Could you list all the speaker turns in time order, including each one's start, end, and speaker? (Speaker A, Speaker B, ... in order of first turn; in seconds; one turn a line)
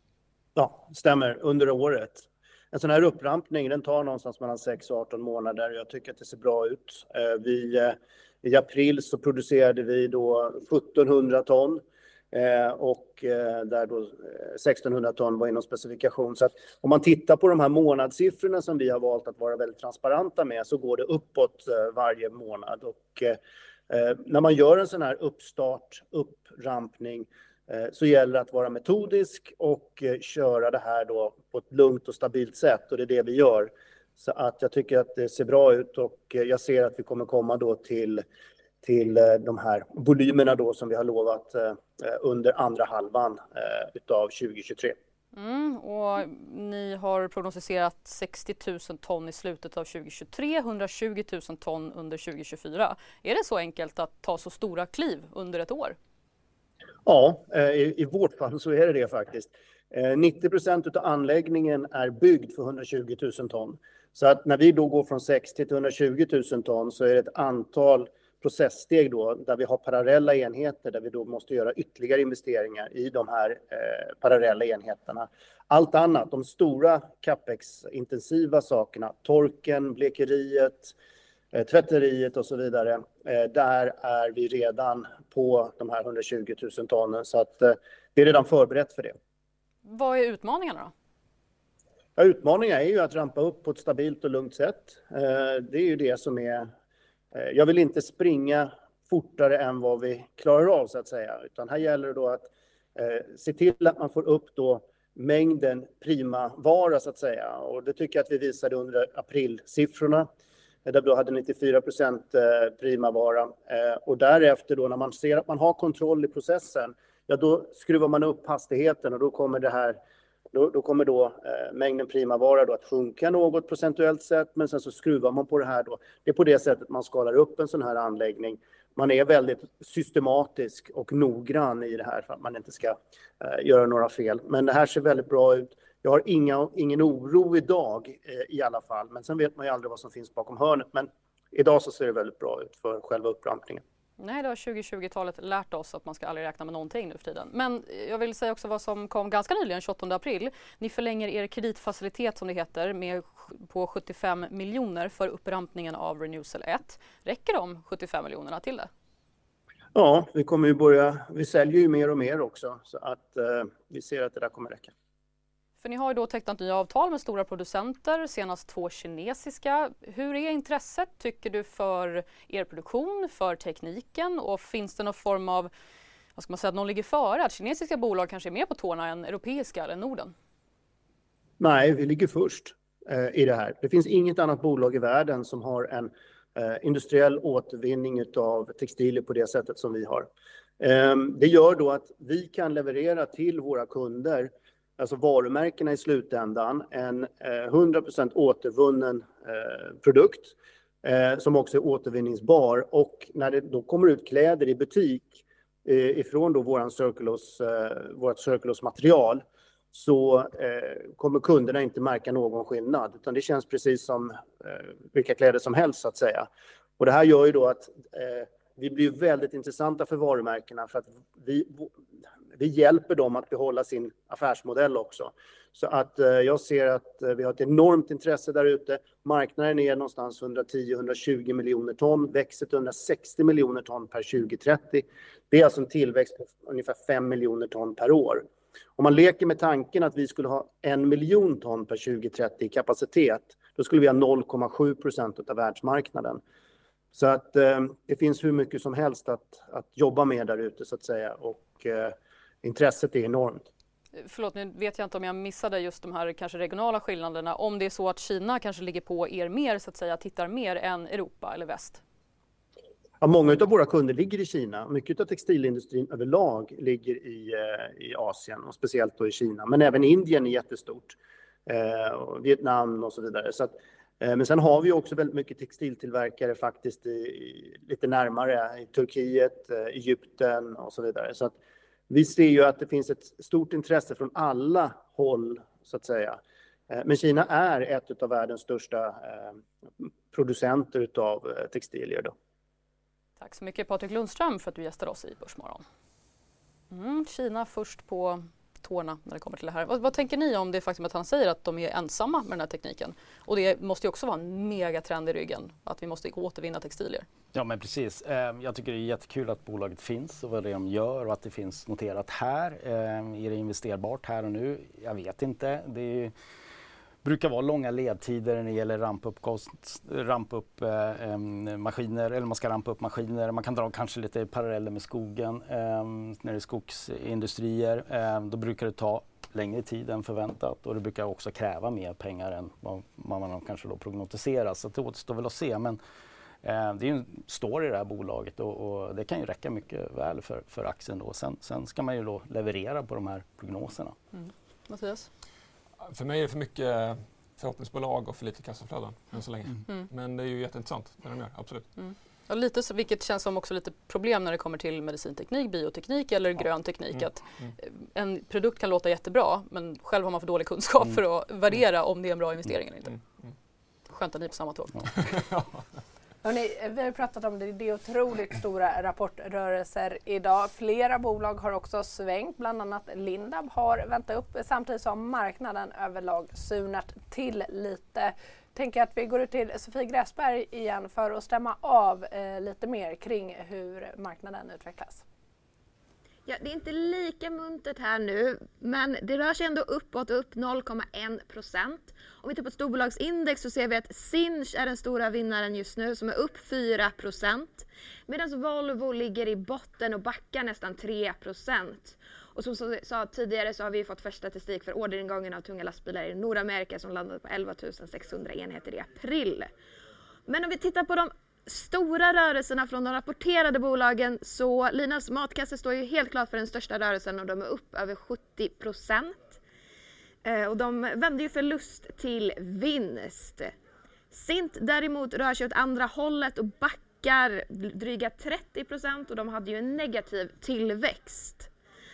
Speaker A: 0.6-23.4
Speaker A: 23.9-38.2
Speaker A: 38.8-45.0
Speaker B: 45.3-56.0
Speaker A: 57.0-80.9
Speaker A: 81.5-89.2
Speaker B: 89.8-90.9
Speaker A: 92.2-96.7
Speaker A: 97.3-110.3
Speaker A: 110.8-120.0
Speaker A: 120.5-143.8
Speaker B: 144.2-158.9
Speaker A: 159.9-164.9
Speaker B: 165.8-175.7
Speaker B: 176.3-180.3
Speaker A: 181.6-190.3
Speaker A: 190.8-216.5
Speaker A: 217.0-221.9
Speaker A: 222.6-246.4
Speaker A: 247.1-253.6
Speaker B: 254.2-262.0
Speaker A: 263.2-271.1
Speaker A: 271.7-281.5
Speaker A: 282.1-289.6
Speaker A: 290.3-292.3
Speaker B: 293.4-295.8
Speaker B: 296.9-307.2
Speaker C: 307.5-316.3
Speaker C: 317.2-336.0
Speaker C: 336.6-344.1
Speaker B: 344.3-345.3
Speaker D: 346.1-351.9
Speaker B: 352.0-363.2
Speaker B: 364.1-365.3
Speaker D: 365.3-365.6
Speaker E: 366.4-385.2
Speaker F: 386.4-409.7
Speaker F: 410.5-419.6
Speaker F: 420.4-423.7
Speaker F: 424.3-431.7